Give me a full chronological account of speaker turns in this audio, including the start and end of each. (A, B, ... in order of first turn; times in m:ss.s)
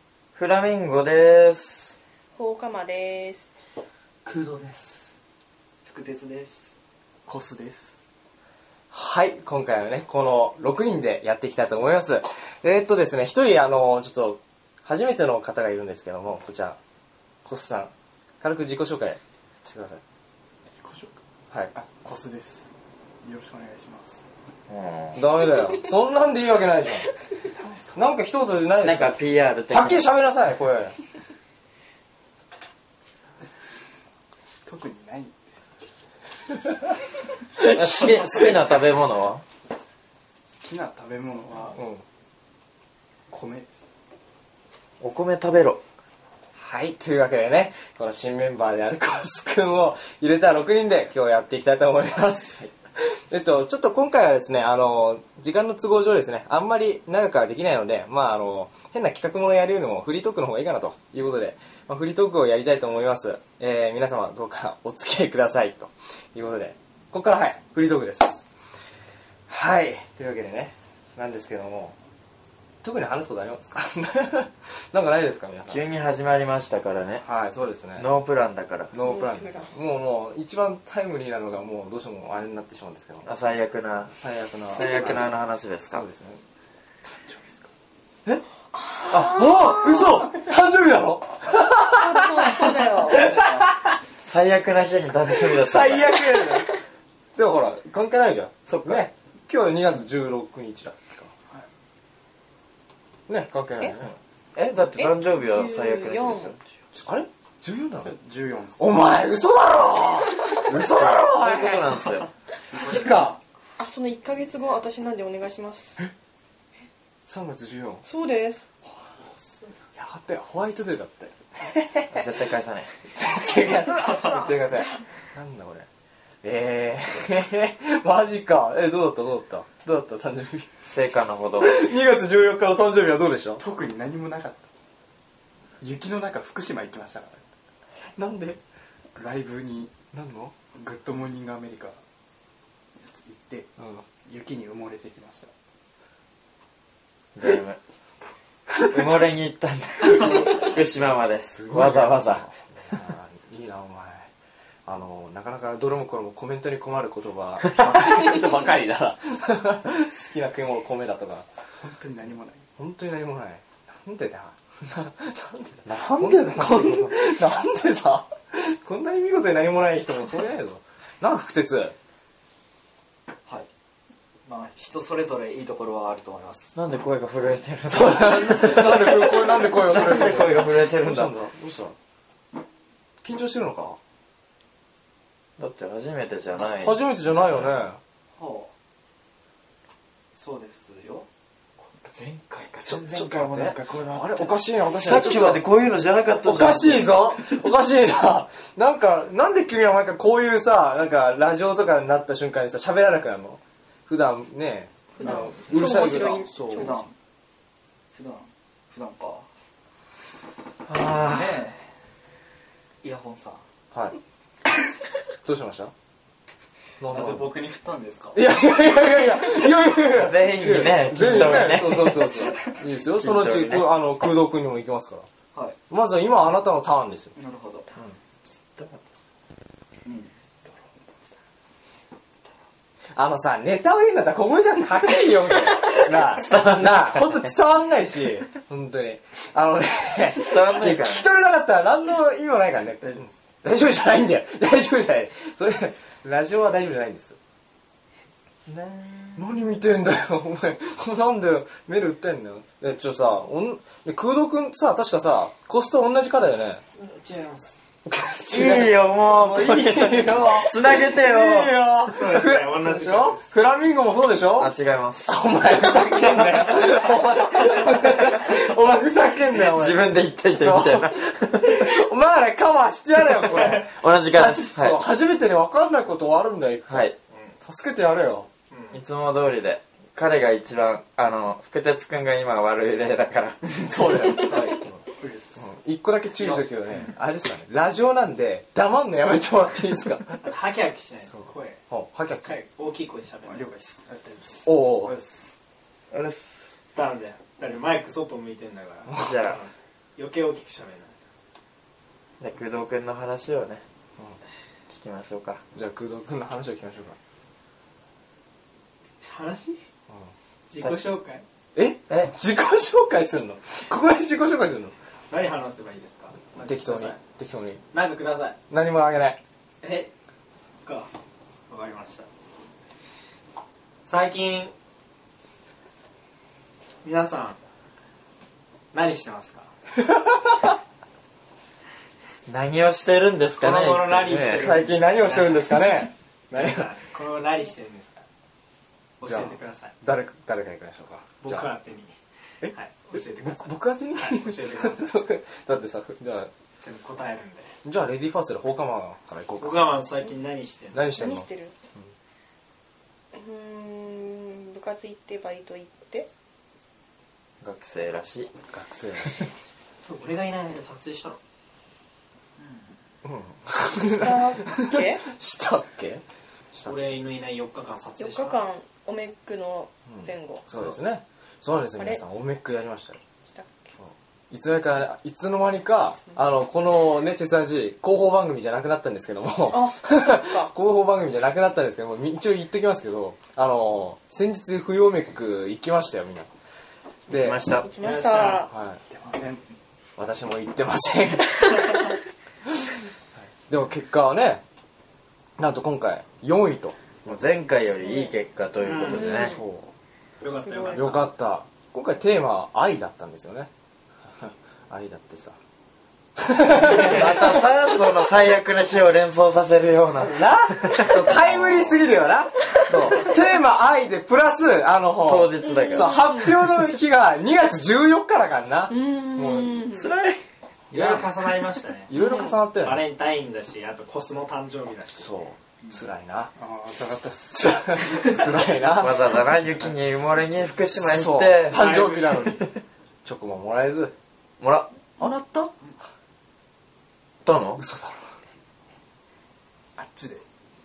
0:00.4-0:01.9 A
0:02.4-0:03.4 B
0:04.3-0:05.1 C
0:05.8-0:06.8 C
0:07.3-0:07.8 D
0:07.4-0:07.8 C
0:08.9-0:16.8 E
0:17.4-0:20.0 E
0:20.7-0:21.2 D
0:21.7-0:22.7 D
0:23.2-0:24.2 D
0:24.7-0:25.2 A
0:25.2-0:27.1 E
0:27.4-0:28.0 D
0:28.0-0:29.2 E
0:28.8-0:30.0 A
0:29.7-0:31.0 E
0:34.6-0:35.7 D
0:37.6-0:39.4 A
0:40.5-0:41.8 D
0:41.7-0:42.0 E
0:43.3-0:43.8 D
0:45.0-0:45.8 A
0:46.6-1:08.5 E
1:09.5-1:12.0 E
1:12.8-1:15.8 E
1:15.7-1:17.2 A
1:17.2-1:18.1 E
1:18.0-1:18.9 A
1:18.9-1:23.3 E
1:19.0-1:19.7 B
1:23.2-1:24.1 A
1:24.1-1:25.3 E
1:24.7-1:26.0 A
1:25.9-1:26.4 E
1:27.0-1:27.7 D
1:28.8-1:30.2 B
1:29.1-1:33.9 E
1:31.8-1:33.4 B
1:34.2-1:36.2 A
1:35.4-1:36.8 E
1:37.4-1:41.3 E
1:38.7-1:39.1 A
1:43.3-1:44.1 E
1:44.0-1:46.6 A
1:45.0-1:46.5 B
1:46.9-1:48.2 E
1:48.0-1:48.8 D
1:48.8-1:52.0 E
1:50.8-1:52.3 A
1:52.7-1:53.4 E
1:53.8-1:56.1 B
1:57.3-1:58.1 E
1:58.1-1:58.7 B
2:00.0-2:02.4 E
2:02.1-2:02.9 A
2:03.1-2:05.9 E
2:06.4-2:10.7 E
2:10.9-2:11.8 A
2:11.6-2:13.6 E
2:13.6-2:14.7 D
2:15.8-2:17.4 D
2:18.2-2:18.6 E
2:19.2-2:20.0 D
2:20.1-2:20.6 E
2:20.7-2:22.0 D
2:23.0-2:23.7 D
2:23.8-2:24.0 E
2:24.2-2:25.5 D
2:27.4-2:27.8 A
2:28.8-2:32.5 A
2:31.4-2:34.3 E
2:34.9-2:41.5 E
2:41.8-2:42.6 D
2:42.8-2:52.0 E
2:46.1-2:47.2 A
2:54.5-2:56.8 C
2:56.8-3:01.3 A
2:57.9-3:02.0 E
3:03.2-3:04.0 E
3:05.6-3:07.7 A
3:06.8-3:08.0 E
3:08.4-3:08.7 C
3:10.4-3:11.3 C
3:12.0-3:17.5 A
3:12.9-3:15.6 E
3:16.4-3:26.9 E
3:25.2-3:27.0 B
3:26.7-3:27.1 C
3:28.1-3:29.5 C
3:30.9-3:31.6 A
3:31.0-3:31.8 C
3:33.0-3:33.6 C
3:33.9-3:34.2 E
3:35.4-3:35.9 E
3:37.0-3:37.5 E
3:37.1-3:38.4 C
3:38.4-3:45.3 E
3:40.0-3:42.3 A
3:43.2-3:43.9 A
3:45.9-3:47.3 E
3:47.4-3:47.9 C
3:50.1-3:50.3 C
3:53.2-4:07.4 E
3:55.9-3:57.4 A
4:00.3-4:01.3 A
4:03.0-4:03.3 D
4:08.7-4:09.4 A
4:09.4-4:16.8 E
4:16.9-4:17.8 F
4:18.1-4:24.7 E
4:18.5-4:21.9 A
4:22.1-4:23.5 F
4:24.6-4:25.3 A
4:25.3-4:38.5 E
4:29.7-4:31.9 A
4:33.6-4:35.0 A
4:36.9-4:37.2 A
4:37.3-4:37.6 F
4:38.7-4:39.0 F
4:38.9-4:43.7 A
4:43.8-4:45.0 E
4:45.1-4:45.6 D
4:45.6-4:50.4 E
4:50.4-4:51.8 F
4:51.3-4:52.5 E
4:52.4-4:53.7 F
4:53.4-4:54.8 D
4:54.7-4:55.1 E
4:55.1-4:55.5 C
4:56.1-4:56.6 A
4:57.0-5:01.2 F
4:59.1-4:59.4 E
4:59.2-4:59.6 A
5:02.4-5:03.8 A
5:04.9-5:05.6 A
5:05.7-5:07.2 E
5:09.2-5:09.8 F
5:10.7-5:11.4 F
5:11.8-5:14.9 E
5:15.3-5:17.2 F
5:16.6-5:17.8 E
5:17.9-5:18.6 F
5:18.7-5:19.4 E
5:19.8-5:20.1 F
5:20.7-5:21.1 F
5:21.7-5:22.3 F
5:24.1-5:24.7 F
5:27.0-5:27.6 F
5:28.9-5:29.7 F
5:30.0-5:30.7 E
5:32.5-5:34.9 A
5:33.6-5:35.8 F
5:34.5-5:36.9 E
5:36.5-5:38.2 F
5:39.2-5:39.9 F
5:39.2-5:41.7 E
5:41.4-5:45.2 F
5:42.6-5:46.5 E
5:46.8-5:47.8 F
5:47.8-5:50.0 E
5:49.6-5:51.1 F
5:50.9-5:52.1 E
5:51.1-5:51.7 B
5:53.3-5:56.3 B
5:57.6-5:58.5 A
5:58.7-5:59.5 E
6:00.0-6:01.4 F
6:03.2-6:07.0 E
6:03.9-6:05.2 B
6:06.8-6:08.6 F
6:08.2-6:10.6 B
6:10.1-6:13.2 E
6:12.0-6:12.2 B
6:13.5-6:14.0 B
6:14.0-6:26.5 E
6:19.7-6:20.7 B
6:27.3-6:27.6 E
6:27.3-6:27.9 A
6:27.8-6:28.7 B
6:28.0-6:28.7 F
6:28.7-6:29.0 E
6:29.1-6:29.6 D
6:30.2-6:32.0 E
6:32.7-6:32.9 E
6:33.7-6:34.6 E
6:35.6-6:37.4 E
6:37.2-6:39.6 A
6:38.0-6:38.3 B
6:38.8-6:39.4 F
6:38.9-6:39.6 B
6:39.3-6:39.9 E
6:40.4-6:41.3 F
6:40.7-6:41.0 B
6:40.9-6:43.7 E
6:44.4-6:45.6 E
6:46.4-6:47.8 E
6:46.7-6:52.0 A
6:50.2-6:59.8 E
6:55.3-6:56.6 A
6:55.6-6:56.6 B
6:58.9-7:00.1 B
6:59.9-7:00.4 A
7:00.9-7:02.1 F
7:00.9-7:01.3 E
7:02.1-7:03.0 E
7:02.1-7:02.6 B
7:02.8-7:05.3 F
7:05.2-7:06.5 E
7:06.6-7:08.4 D
7:07.6-7:09.4 E
7:08.8-7:11.8 A
7:10.8-7:12.7 E
7:11.7-7:12.6 F
7:13.2-7:14.2 E
7:14.6-7:14.9 A
7:15.2-7:15.7 B
7:17.4-7:17.8 A
7:17.8-7:18.2 E
7:20.0-7:20.4 D